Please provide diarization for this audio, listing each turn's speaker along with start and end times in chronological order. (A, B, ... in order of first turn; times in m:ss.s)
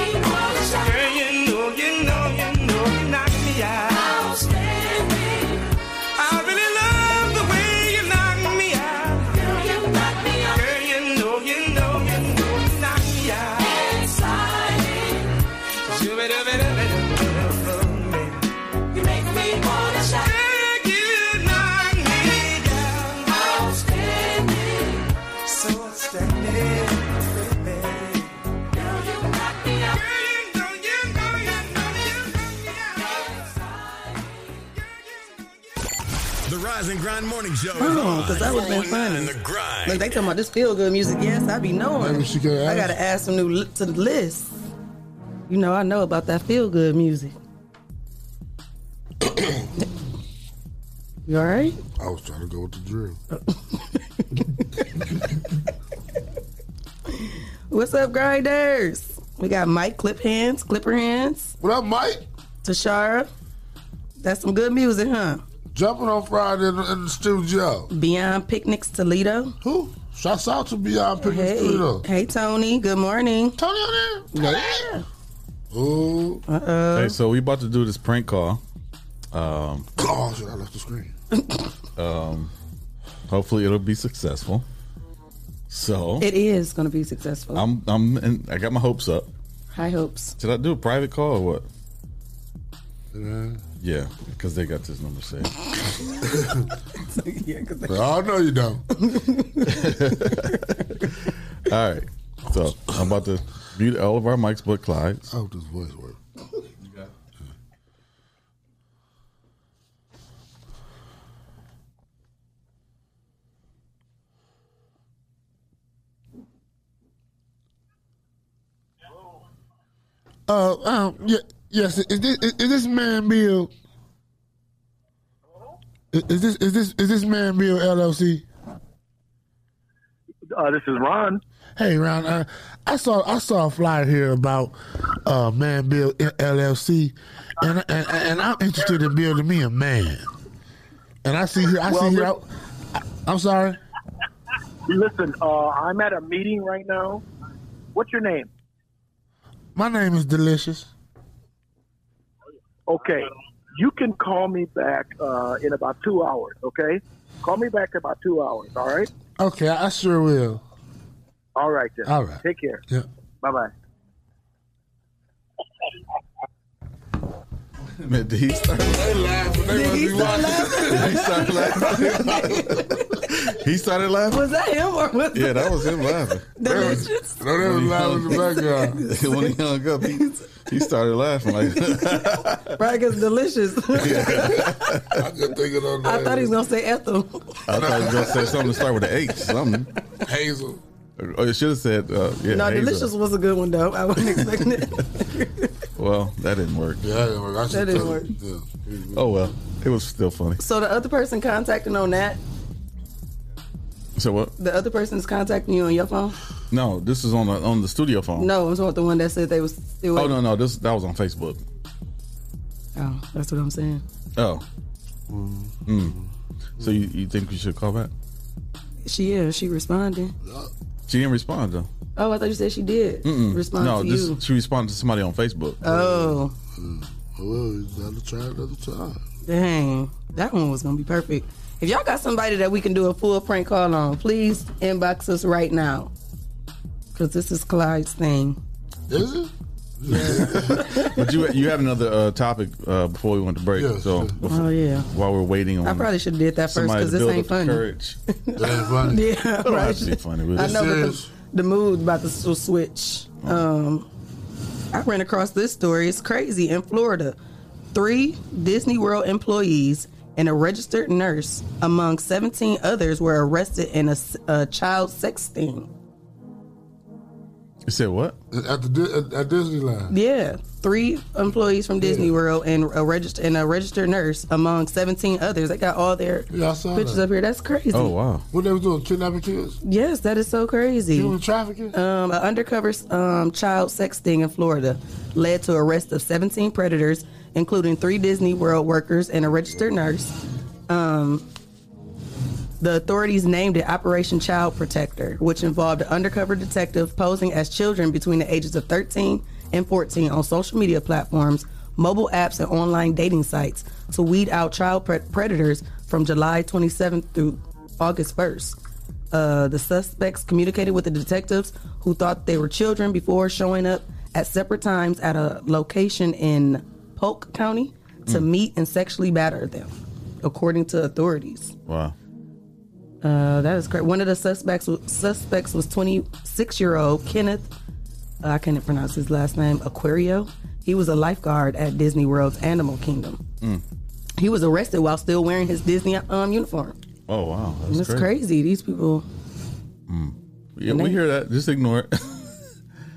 0:00.4-0:04.5 A
0:06.2-0:09.5 A
0:10.4-0:13.9 A
0:15.8-0:18.4 A
0:19.1-0:23.9 A
0:25.4-0:28.4 A
0:29.6-0:33.5 A
0:36.5-0:40.3 B
0:37.8-0:44.6 C
0:42.0-0:43.0 D
0:45.5-0:47.4 C
0:49.2-0:49.7 D
0:51.3-0:51.8 C
0:52.0-0:53.2 D
0:53.3-0:54.4 C
0:57.1-1:01.5 C
1:01.6-1:02.3 D
1:02.6-1:03.3 C
1:04.2-1:05.4 C
1:05.7-1:07.9 D
1:07.9-1:09.6 C
1:09.6-1:12.0 D
1:11.2-1:13.6 C
1:13.6-1:14.9 D
1:14.3-1:15.0 C
1:15.7-1:16.4 D
1:16.5-1:17.2 C
1:17.0-1:18.6 E
1:19.3-1:19.9 E
1:20.0-1:21.1 D
1:22.0-1:22.5 E
1:23.3-1:24.6 E
1:25.7-1:26.3 E
1:26.2-1:27.6 C
1:27.6-1:29.3 E
1:29.7-1:30.4 C
1:30.4-1:31.7 E
1:33.1-1:33.6 D
1:33.8-1:36.0 E
1:36.3-1:36.6 D
1:37.0-1:38.0 C
1:37.9-1:38.8 D
1:39.0-1:40.6 C
1:39.7-1:41.0 E
1:41.7-1:45.3 E
1:45.3-1:46.2 D
2:00.5-2:03.7 D
2:06.1-2:08.4 D
2:10.6-2:11.4 F
2:11.8-2:20.3 D
2:21.2-2:23.8 D
2:21.9-2:22.4 F
2:24.9-2:27.2 F
2:27.9-2:28.5 F
2:29.8-2:30.9 D
2:32.9-2:39.1 F
2:39.4-2:40.6 D
2:41.6-2:42.8 F
2:42.0-2:43.1 D
2:43.4-2:43.7 F
2:48.0-2:49.3 E
2:48.9-2:52.6 D
2:49.7-2:53.0 C
2:50.2-2:54.5 E
2:54.3-2:57.4 C
2:55.3-2:56.9 E
2:56.6-2:59.0 D
2:57.6-2:58.5 E
2:58.3-3:00.5 C
2:59.0-3:02.8 E
3:01.9-3:04.7 C
3:03.9-3:05.2 E
3:05.1-3:06.6 D
3:06.0-3:07.5 C
3:07.7-3:09.9 E
3:07.7-3:08.8 D
3:10.2-3:10.8 D
3:11.2-3:13.1 E
3:12.5-3:15.7 C
3:16.0-3:17.1 E
3:17.0-3:19.4 D
3:17.7-3:18.3 C
3:19.1-3:20.6 E
3:20.6-3:22.4 C
3:24.2-3:24.5 E
3:24.6-3:26.4 C
3:26.7-3:28.5 E
3:28.4-3:30.4 C
3:30.2-3:31.6 E
3:33.0-3:34.0 C
3:34.4-3:34.6 E
3:35.3-3:36.3 D
3:35.9-3:36.2 E
3:36.8-3:38.1 E
3:39.0-3:40.3 C
3:40.4-3:40.7 D
3:41.1-3:41.9 E
3:42.2-3:44.4 C
3:43.2-3:45.8 E
3:45.8-3:46.5 C
3:45.8-3:49.2 D
3:49.5-3:56.1 C
3:57.2-3:58.6 C
3:59.1-4:00.8 D
4:00.1-4:01.2 C
4:00.3-4:06.1 E
4:03.8-4:04.4 D
4:04.4-4:05.1 C
4:05.8-4:07.8 C
4:06.7-4:08.2 E
4:08.4-4:14.1 C
4:08.6-4:09.2 D
4:09.6-4:10.8 E
4:10.6-4:11.3 D
4:14.9-4:17.4 C
4:17.9-4:25.9 C
4:27.9-4:28.4 E
4:28.5-4:30.1 D
4:30.1-4:38.1 C
4:32.0-4:32.4 D
4:36.5-4:37.2 D
4:37.9-4:38.4 E
4:38.5-4:39.8 D
4:39.8-4:41.4 C
4:41.1-4:42.0 D
4:41.9-4:50.3 C
4:50.9-4:51.4 C
4:52.8-5:08.8 C
5:09.3-5:21.7 C
5:21.9-5:22.2 E
5:23.2-5:27.7 C
5:28.4-5:33.4 C
5:34.4-5:37.0 C
5:37.3-5:38.3 E
5:37.9-5:39.3 C
5:40.1-5:42.6 E
5:40.9-5:41.2 C